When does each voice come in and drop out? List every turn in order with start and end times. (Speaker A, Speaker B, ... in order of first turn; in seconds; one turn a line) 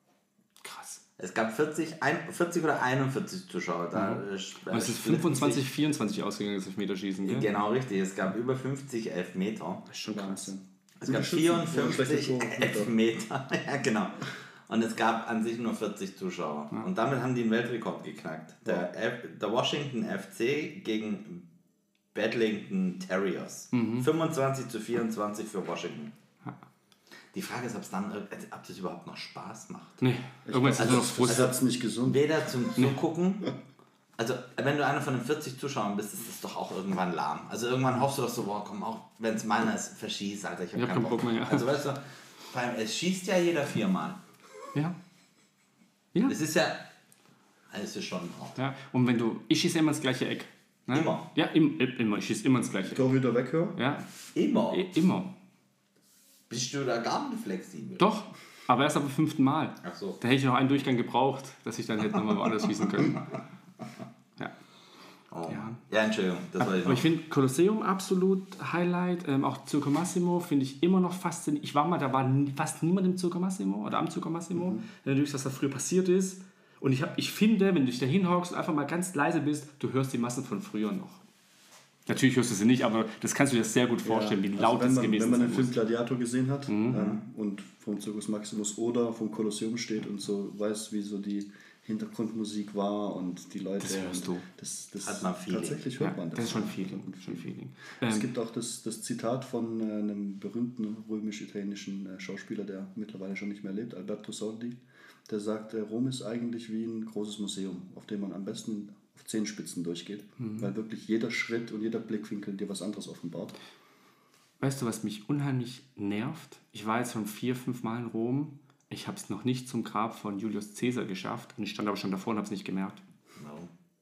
Speaker A: 0.6-1.0
Speaker B: 1.2-5.7
Speaker A: 3.9-7.5
Speaker B: 7.2-9.8
Speaker A: 9.9-10.5
Speaker C: 10.1-12.9
Speaker B: 11.0-21.4
Speaker B: 22.1-26.1
Speaker A: 23.7-24.1
Speaker B: 27.3-30.0
Speaker A: 30.0-31.5
Speaker C: 30.4-32.3
Speaker B: 30.8-33.5
Speaker B: 34.2-44.2
Speaker A: 40.8-41.7
Speaker B: 46.3-46.9
Speaker B: 47.7-48.6
Speaker A: 48.6-53.0
Speaker B: 50.9-51.3
Speaker C: 52.9-53.8
Speaker A: 53.8-54.0
Speaker B: 54.3-54.9
Speaker A: 54.7-55.3
Speaker B: 56.5-58.1
Speaker A: 58.0-63.2
Speaker B: 59.8-60.2
Speaker B: 65.3-67.1
Speaker A: 65.5-65.8
Speaker A: 66.6-81.2
Speaker C: 74.5-74.8
Speaker A: 82.1-85.8
Speaker C: 84.0-97.5
Speaker A: 86.7-87.2
Speaker A: 93.8-94.4
Speaker B: 95.0-95.9
Speaker A: 96.0-98.3
Speaker C: 98.0-113.5
Speaker A: 110.4-110.7
Speaker A: 114.6-123.0
Speaker B: 123.4-123.7